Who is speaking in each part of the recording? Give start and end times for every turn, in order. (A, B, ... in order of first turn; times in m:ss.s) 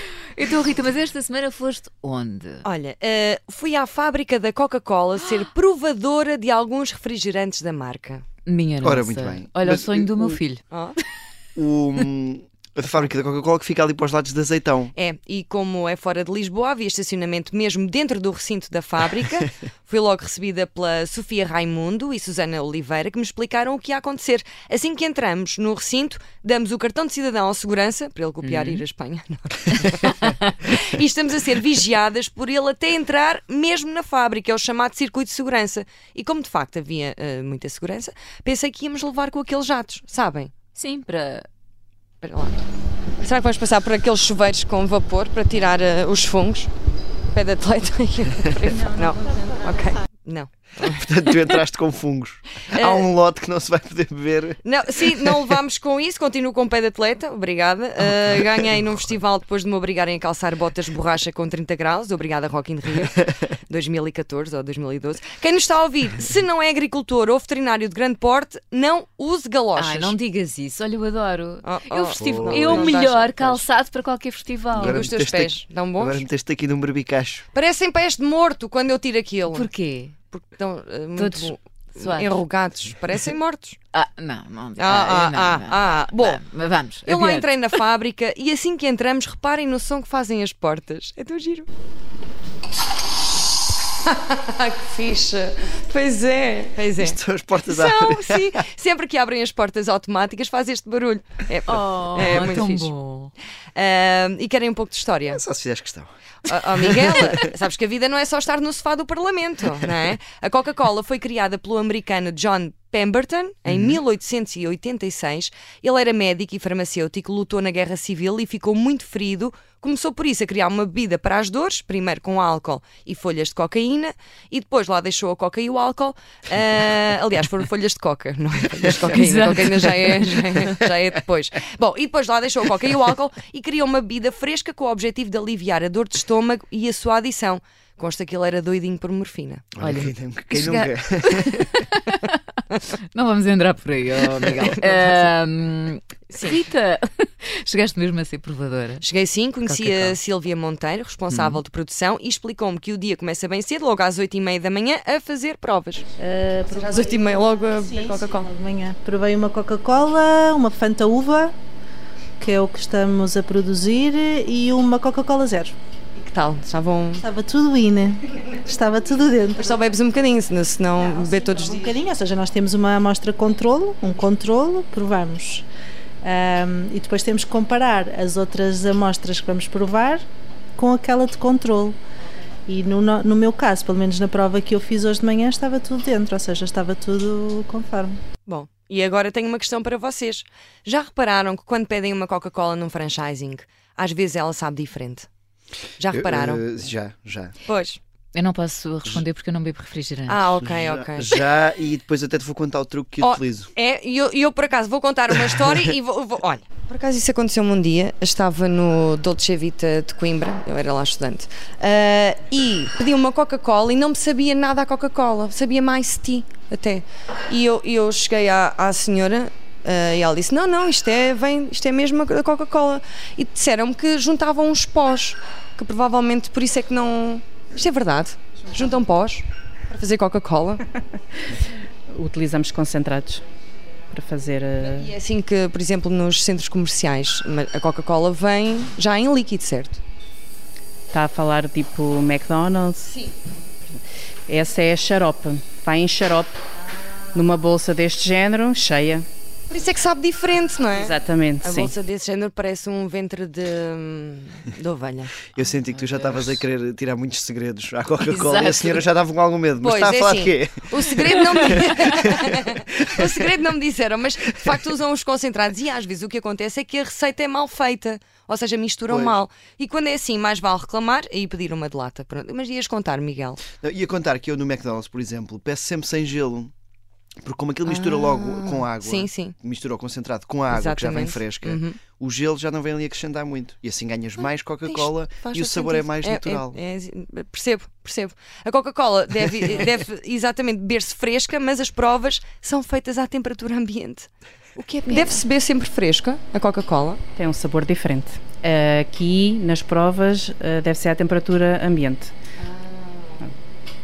0:00.4-0:02.6 A
0:02.6-0:08.2 B
0:08.5-0:10.6 A
0:08.8-0:10.4 C
0:10.7-0:11.0 B
0:11.6-0:14.9 C
0:14.9-0:40.5 B
0:28.4-0:28.8 A
0:40.8-0:41.5 A
0:42.2-0:42.6 B
0:43.2-0:46.7 B
0:47.3-0:51.6 B
0:50.8-0:55.6 C
0:52.6-0:53.1 B
0:54.6-1:10.2 B
0:58.1-0:58.8 C
1:09.8-1:15.0 A
1:11.6-1:13.7 B
1:12.1-1:13.0 C
1:14.8-1:17.4 C
1:14.8-1:16.2 B
1:17.5-1:19.7 B
1:19.5-1:20.2 A
1:20.3-1:23.8 B
1:21.2-1:22.4 A
1:23.9-1:27.7 A
1:24.8-1:26.4 B
1:27.0-1:31.7 B
1:34.0-1:42.9 B
1:37.0-1:38.6 C
1:41.7-1:43.3 A
1:43.8-1:45.4 B
1:45.3-1:46.1 C
1:46.4-2:19.7 B
1:46.8-1:47.5 C
1:53.7-1:54.0 C
2:09.1-2:10.3 A
2:19.8-2:21.8 C
2:19.8-2:22.4 A
2:23.1-2:29.0 A
2:24.4-2:25.3 B
2:26.3-2:26.6 B
2:29.0-2:36.0 B
2:29.8-2:30.1 A
2:36.2-2:41.5 D
2:36.7-2:38.5 B
2:42.4-2:45.7 D
2:46.2-2:47.2 B
2:47.2-2:49.9 D
2:49.6-2:52.0 B
2:51.0-2:55.7 D
2:56.2-3:00.2 D
3:00.8-3:02.0 D
3:02.7-3:08.2 D
3:08.5-3:15.3 B
3:16.0-3:16.6 B
3:16.1-3:17.5 C
3:17.6-3:18.0 B
3:18.3-3:20.6 A
3:20.3-3:21.4 B
3:20.6-3:23.7 C
3:23.2-3:50.9 B
3:52.1-3:53.4 E
3:54.1-3:55.1 E
3:54.8-4:00.0 B
4:01.1-4:03.2 E
4:04.5-4:06.6 E
4:07.3-4:09.3 E
4:09.7-4:15.4 B
4:11.0-4:12.0 E
4:15.6-4:20.8 C
4:15.6-4:16.6 A
4:18.2-4:19.0 A
4:19.8-4:33.6 B
4:21.6-4:22.5 C
4:29.1-4:29.4 C
4:33.8-4:36.7 C
4:37.4-4:46.8 C
4:37.9-4:39.6 B
4:40.7-4:42.0 B
4:44.8-4:57.2 B
4:57.4-5:02.3 E
5:02.6-5:03.5 B